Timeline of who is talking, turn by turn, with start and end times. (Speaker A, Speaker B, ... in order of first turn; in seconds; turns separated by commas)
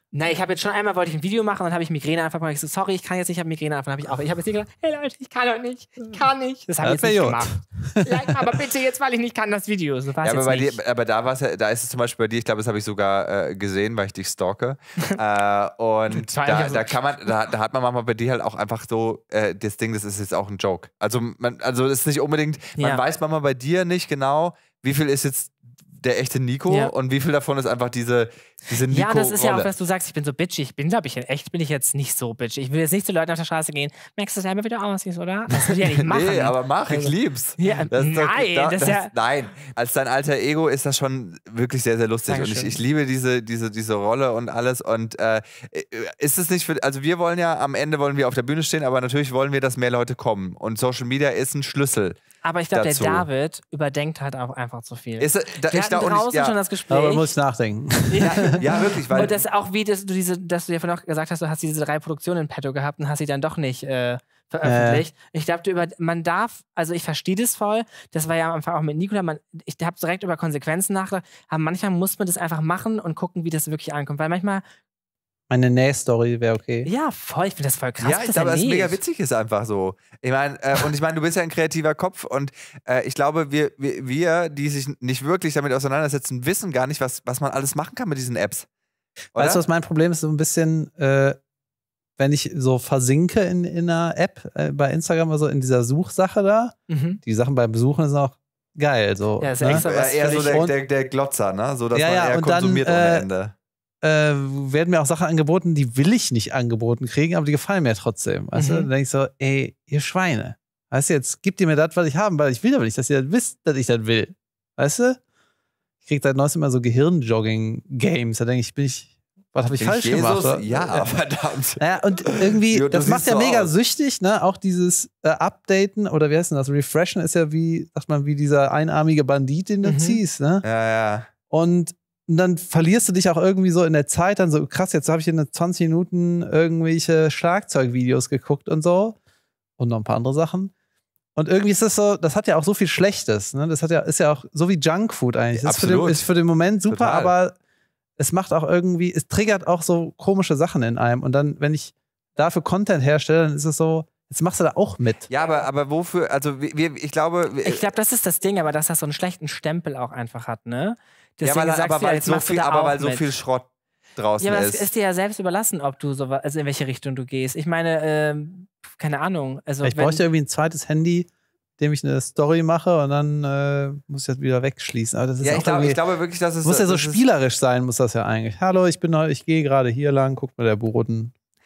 Speaker A: 0.1-10.8, Speaker B: 6.8-8.5, Speaker C: 10.2-29.7, Speaker A: 16.1-17.0, Speaker A: 28.9-39.1, Speaker C: 35.6-52.2, Speaker A: 42.3-42.7, Speaker A: 52.4-57.3, Speaker C: 52.7-53.3, Speaker C: 55.2-56.6, Speaker B: 56.9-58.5, Speaker A: 58.1-74.6, Speaker C: 58.2-59.4, Speaker B: 64.6-65.0, Speaker B: 75.5-76.9, Speaker A: 76.8-79.0, Speaker C: 78.0-88.7, Speaker C: 89.3-89.6, Speaker B: 89.3-91.4, Speaker B: 92.2-100.7, Speaker A: 96.9-97.2, Speaker A: 99.4-100.7, Speaker C: 99.7-103.5, Speaker B: 101.9-103.3, Speaker B: 104.0-115.2, Speaker A: 108.5-108.9, Speaker B: 116.0-121.1, Speaker C: 119.8-123.7, Speaker B: 121.8-130.6, Speaker A: 129.8-130.2, Speaker C: 130.6-131.3, Speaker B: 131.5-139.2, Speaker B: 139.8-140.7, Speaker B: 141.3-147.5, Speaker C: 145.6-146.3, Speaker C: 146.8-147.3, Speaker B: 148.2-155.3, Speaker C: 155.3-157.8, Speaker A: 157.6-163.2, Speaker C: 161.4-164.8, Speaker A: 164.4-170.2, Speaker B: 169.8-176.0, Speaker C: 175.4-177.2, Speaker B: 176.6-181.3